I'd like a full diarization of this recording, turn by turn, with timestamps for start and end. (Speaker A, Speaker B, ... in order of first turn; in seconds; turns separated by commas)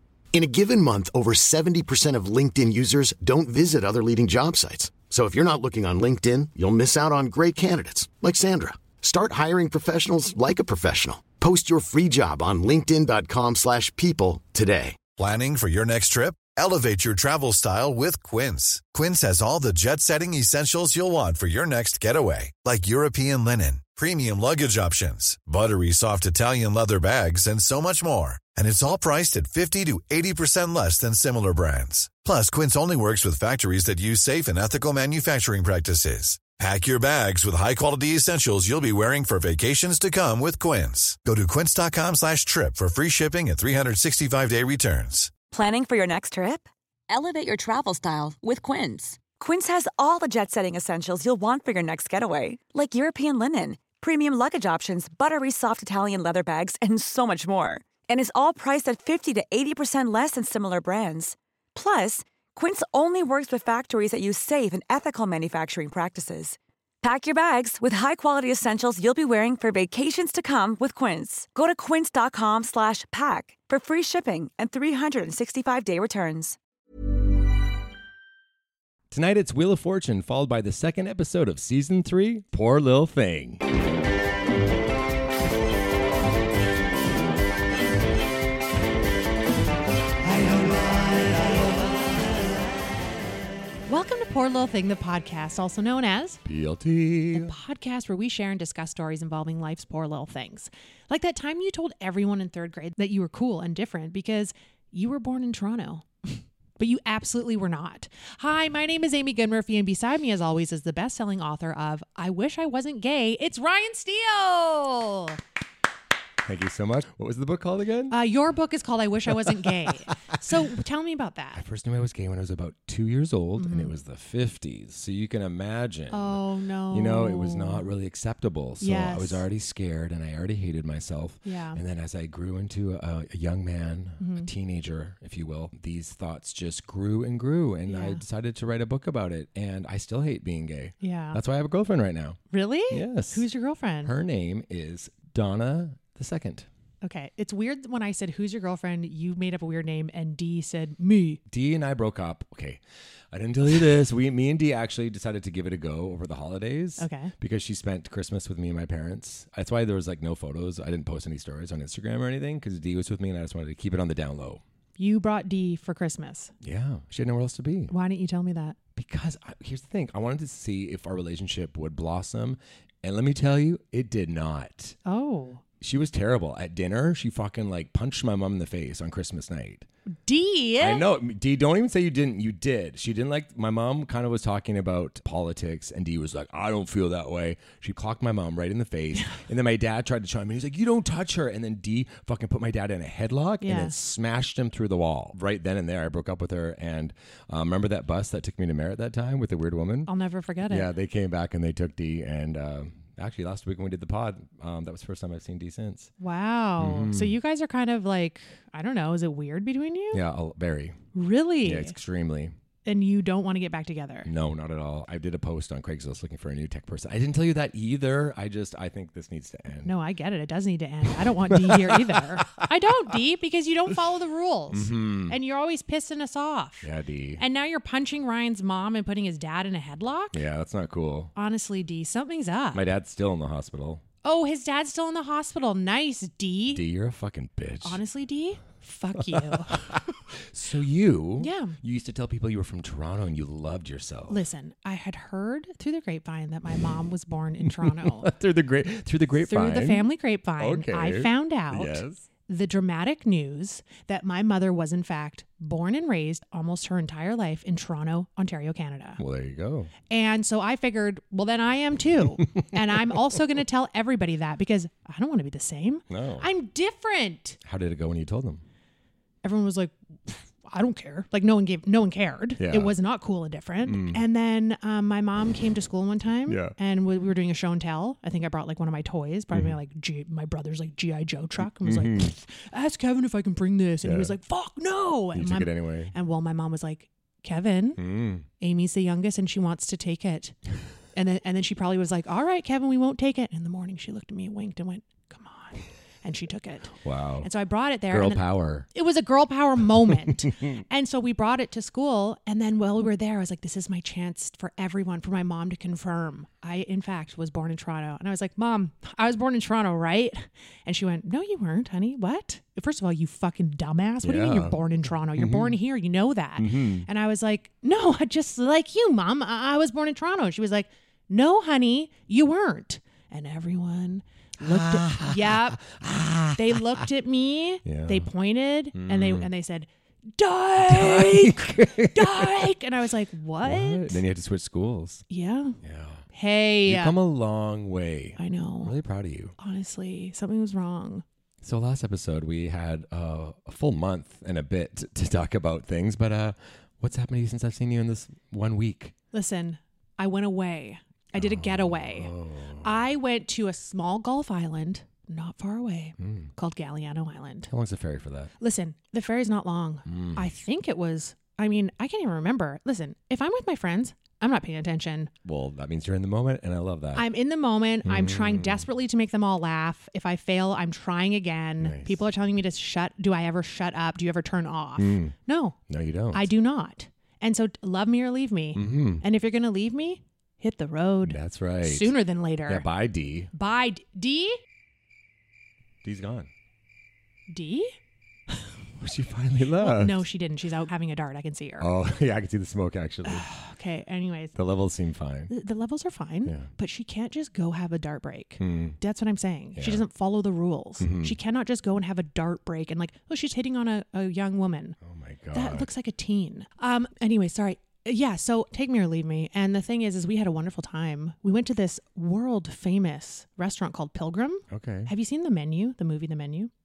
Speaker A: 0.3-15.0, Speaker B: 15.2-45.3, Speaker C: 45.5-76.6, Speaker D: 79.1-83.6, Speaker E: 93.9-96.4, Speaker D: 96.4-97.5, Speaker E: 97.3-115.4, Speaker D: 116.4-118.2, Speaker E: 118.1-121.6, Speaker D: 119.3-119.9, Speaker D: 121.5-143.5, Speaker E: 123.6-123.9, Speaker E: 126.1-127.9, Speaker E: 128.8-129.4, Speaker E: 131.4-131.8, Speaker E: 134.2-134.5, Speaker E: 137.9-138.2, Speaker E: 141.0-141.4, Speaker E: 142.5-144.1, Speaker D: 144.0-146.7, Speaker E: 147.0-151.4, Speaker D: 151.5-152.8, Speaker D: 153.3-164.6, Speaker E: 157.0-157.3, Speaker E: 165.0-166.5, Speaker D: 166.6-167.9, Speaker E: 167.9-168.8, Speaker D: 168.9-175.0, Speaker E: 175.0-175.6, Speaker D: 175.8-179.9, Speaker E: 180.2-181.0, Speaker D: 180.8-200.1, Speaker E: 193.6-193.9, Speaker E: 200.1-200.9, Speaker D: 200.7-206.1, Speaker E: 206.2-210.2, Speaker D: 206.8-207.4, Speaker D: 210.1-211.0, Speaker E: 211.1-211.9, Speaker D: 211.6-212.5, Speaker E: 212.8-214.3, Speaker D: 214.2-219.9, Speaker E: 219.8-230.4, Speaker D: 221.5-222.6, Speaker D: 224.7-225.3, Speaker D: 226.8-227.4, Speaker D: 230.3-231.3, Speaker E: 231.3-232.8, Speaker D: 232.7-234.0, Speaker E: 234.2-236.8, Speaker D: 236.7-238.0, Speaker E: 237.8-239.9, Speaker D: 239.3-244.4, Speaker E: 241.4-241.8, Speaker E: 244.3-248.3, Speaker D: 247.8-252.2, Speaker E: 249.4-259.2, Speaker D: 259.2-259.9, Speaker E: 260.1-267.6, Speaker D: 266.1-266.5, Speaker D: 267.6-268.6, Speaker E: 269.4-288.0, Speaker D: 272.6-272.9, Speaker D: 273.8-274.2, Speaker D: 276.4-276.7, Speaker D: 281.6-282.3, Speaker D: 284.0-284.3, Speaker D: 285.3-286.1, Speaker D: 288.0-288.4, Speaker E: 288.6-290.5, Speaker E: 291.1-325.8, Speaker D: 297.0-297.5, Speaker D: 298.1-298.9, Speaker D: 300.3-300.8, Speaker D: 314.2-314.8, Speaker D: 315.4-315.8, Speaker D: 316.6-317.1, Speaker D: 324.6-327.0, Speaker E: 326.5-334.2, Speaker D: 327.8-328.3, Speaker D: 328.9-329.5, Speaker D: 330.9-332.7, Speaker D: 333.6-335.2, Speaker E: 335.3-335.8, Speaker D: 335.8-336.2, Speaker E: 336.3-337.1, Speaker D: 336.8-339.5, Speaker E: 338.4-338.9, Speaker E: 339.6-341.2, Speaker D: 341.6-349.1, Speaker E: 349.3-352.3, Speaker D: 351.4-353.0, Speaker E: 352.8-357.7, Speaker D: 356.2-356.5, Speaker D: 357.7-358.5, Speaker E: 358.6-365.3, Speaker D: 360.1-360.5, Speaker D: 365.4-367.3, Speaker E: 367.1-375.8, Speaker D: 368.0-368.9, Speaker D: 371.8-372.2, Speaker D: 375.0-375.3, Speaker D: 375.9-376.5, Speaker E: 376.3-382.9, Speaker D: 378.7-379.2, Speaker D: 381.2-383.5, Speaker E: 383.5-384.6, Speaker D: 386.0-386.5, Speaker E: 387.5-387.9, Speaker D: 389.0-390.2, Speaker E: 389.8-391.9, Speaker D: 391.8-393.5, Speaker E: 393.2-394.5, Speaker D: 394.5-395.5, Speaker E: 395.5-405.0, Speaker D: 398.6-399.0, Speaker D: 399.8-400.1, Speaker D: 401.0-401.4, Speaker D: 405.0-405.9, Speaker E: 405.5-416.7, Speaker D: 414.7-415.1